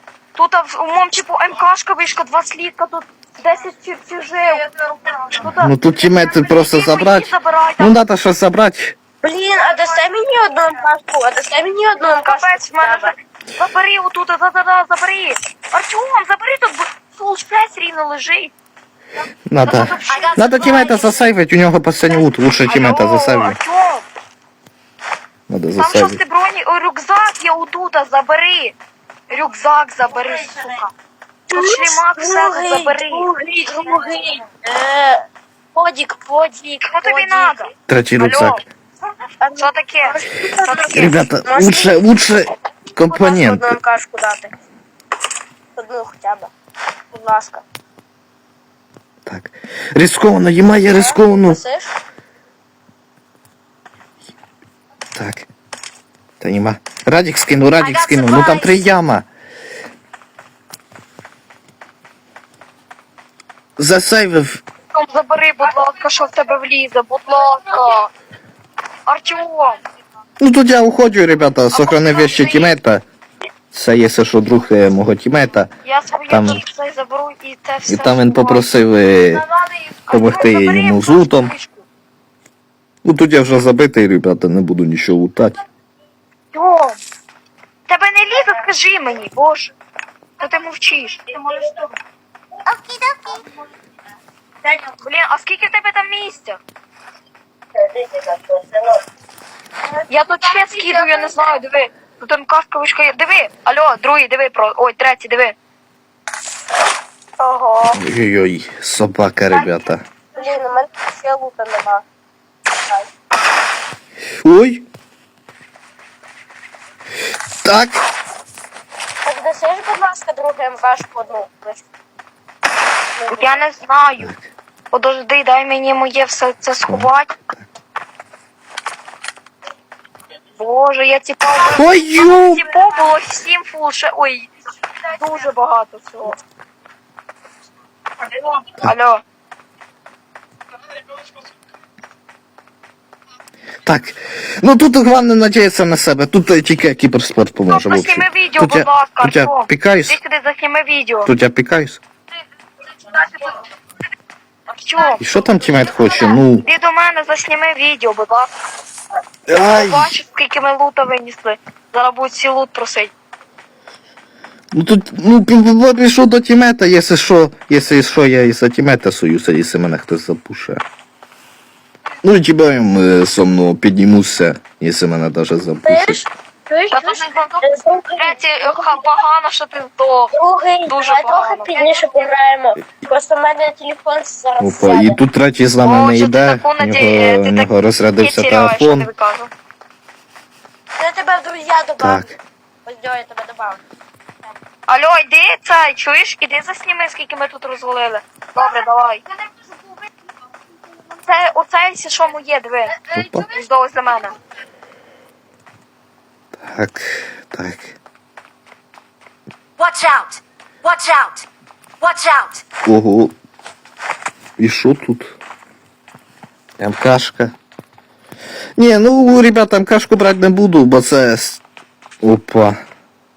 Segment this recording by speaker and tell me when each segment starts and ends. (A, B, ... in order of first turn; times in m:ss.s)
0:00.4-0:04.6 A
0:04.4-0:05.4 B
0:05.4-0:08.0 A
0:05.4-0:09.0 C
0:09.2-0:13.1 D
0:12.0-0:18.5 A
0:19.5-0:23.6 C
0:19.6-0:20.8 A
0:20.1-0:21.0 D
0:20.1-0:21.2 E
0:22.6-0:24.1 A
0:25.5-0:26.2 C
0:25.8-0:28.8 A
0:29.3-0:30.9 A
0:30.1-0:30.8 D
0:31.5-0:37.7 D
0:31.5-0:33.3 A
0:36.9-0:38.6 A
0:37.9-0:38.6 C
0:39.4-0:42.1 D
0:39.6-0:41.2 A
0:40.9-0:43.7 C
0:43.0-0:44.5 D
0:45.8-0:46.5 D
0:47.1-0:47.6 D
0:49.3-0:51.6 C
0:50.9-0:52.0 D
0:55.2-0:55.5 C
0:56.4-0:59.3 C
0:57.8-0:58.8 E
1:03.8-1:04.6 C
1:04.9-1:08.1 A
1:09.1-1:09.8 A
1:10.4-1:13.0 C
1:11.7-1:12.8 A
1:13.7-1:15.7 C
1:15.8-1:18.6 A
1:16.3-1:16.6 C
1:17.9-1:19.5 C
1:20.1-1:21.9 A
1:20.1-1:21.5 C
1:23.0-1:25.6 C
1:26.5-1:27.0 A
1:27.9-1:29.7 A
1:30.4-1:31.3 A
1:31.3-1:31.9 B
1:32.7-1:33.4 E
1:35.0-1:36.6 A
1:37.8-1:39.0 D
1:40.1-1:45.6 A
1:40.5-1:41.3 B
1:47.4-1:48.0 D
1:47.9-1:50.1 C
1:50.3-1:52.0 D
1:52.7-1:53.1 D
1:54.4-1:54.8 C
1:57.6-1:58.0 C
1:59.2-2:01.8 D
2:03.2-2:03.6 D
2:03.3-2:04.3 A
2:04.2-2:04.5 C
2:04.9-2:07.3 A
2:06.9-2:07.7 C
2:10.6-2:14.5 A
2:11.7-2:12.7 C
2:15.1-2:16.4 A
2:18.3-2:19.2 A
2:23.8-2:30.2 C
2:27.7-2:31.3 A
2:31.2-2:32.0 C
2:33.1-2:33.6 A
2:34.7-2:35.2 A
2:35.2-2:36.7 C
2:36.6-2:38.5 A
2:39.5-2:40.2 C
2:39.6-2:43.1 A
2:44.7-2:50.8 C
2:52.2-2:56.2 C
2:55.8-2:59.2 D
2:56.9-3:00.3 A
3:00.3-3:05.2 D
3:00.9-3:02.0 A
3:04.6-3:09.1 C
3:05.8-3:09.5 A
3:11.0-3:12.3 D
3:12.0-3:12.4 C
3:12.8-3:13.8 D
3:14.9-3:19.2 A
3:21.3-3:24.4 A
3:23.1-3:23.5 C
3:26.6-3:28.0 C
3:29.8-3:31.4 E
3:32.0-3:32.6 E
3:32.8-3:33.3 C
3:34.6-3:35.4 C
3:36.8-3:37.6 C
3:38.8-3:41.6 C
3:42.2-3:42.8 C